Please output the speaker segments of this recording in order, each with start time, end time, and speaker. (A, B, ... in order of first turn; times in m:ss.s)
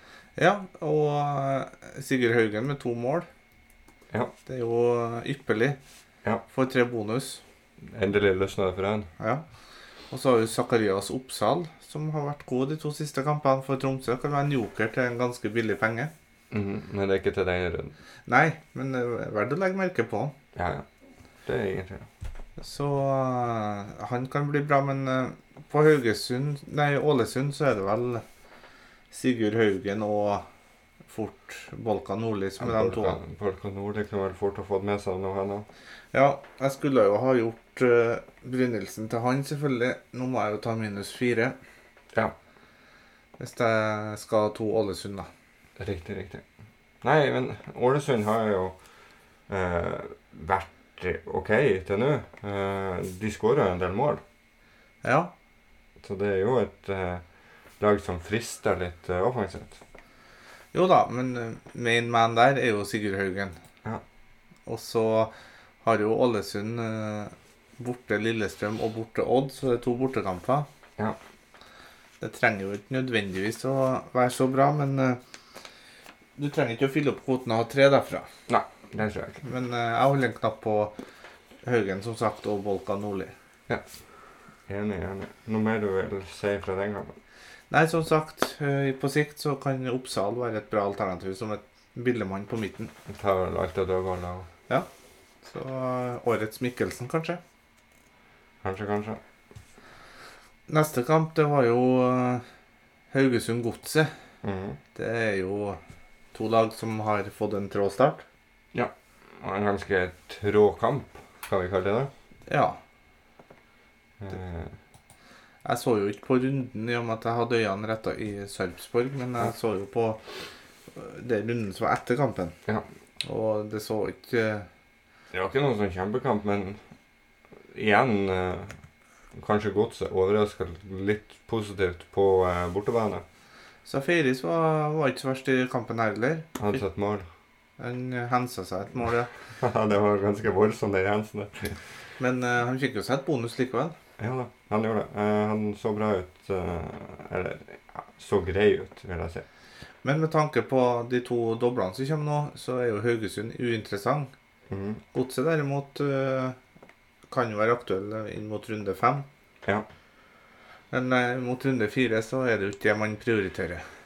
0:00.4-0:03.3 A
0:04.4-0:05.8 A
0:06.5-0:07.4 A
0:07.8-0:09.1 B
0:10.1-0:16.1 A
0:16.5-0:17.9 B
0:18.3-0:20.3 A
0:20.5-0:20.8 B
0:21.4-0:22.1 B
0:22.6-0:28.2 A
0:29.1-0:30.4 A
0:31.1-0:33.2 A
0:32.6-0:35.7 B
0:36.1-0:41.6 A
0:43.4-0:45.3 A
0:45.8-0:46.4 B
0:47.0-0:48.8 B
0:49.5-0:54.2 B
0:55.0-0:55.3 A
0:56.0-0:57.2 B
0:57.8-0:59.8 B
1:00.7-1:03.6 A
1:04.6-1:10.7 A
1:12.2-1:15.2 A
1:16.4-1:18.3 A
1:18.5-1:19.4 B
1:19.4-1:20.9 A
1:21.6-1:23.3 A
1:24.7-1:27.2 B
1:27.7-1:32.9 A
1:33.1-1:34.5 B
1:35.4-1:37.4 A
1:38.6-1:39.2 B
1:40.7-1:42.4 A
1:43.1-1:44.1 A
1:44.4-1:44.8 B
1:44.9-1:45.8 A
1:46.3-1:48.2 A
1:48.7-1:52.1 B
1:52.5-1:52.8 A
1:54.2-1:54.7 B
1:55.6-2:00.2 A
2:00.9-2:02.5 A
2:03.2-2:04.7 A
2:05.3-2:06.8 B
2:07.7-2:08.7 B
2:09.3-2:13.2 B
2:13.8-2:16.8 A
2:16.6-2:17.3 B
2:17.8-2:19.3 A
2:19.6-2:21.8 B
2:22.2-2:23.9 A
2:24.2-2:29.4 B
2:30.0-2:34.3 A
2:34.7-2:35.0 B
2:35.1-2:36.6 A
2:37.3-2:39.2 A
2:40.9-2:43.8 A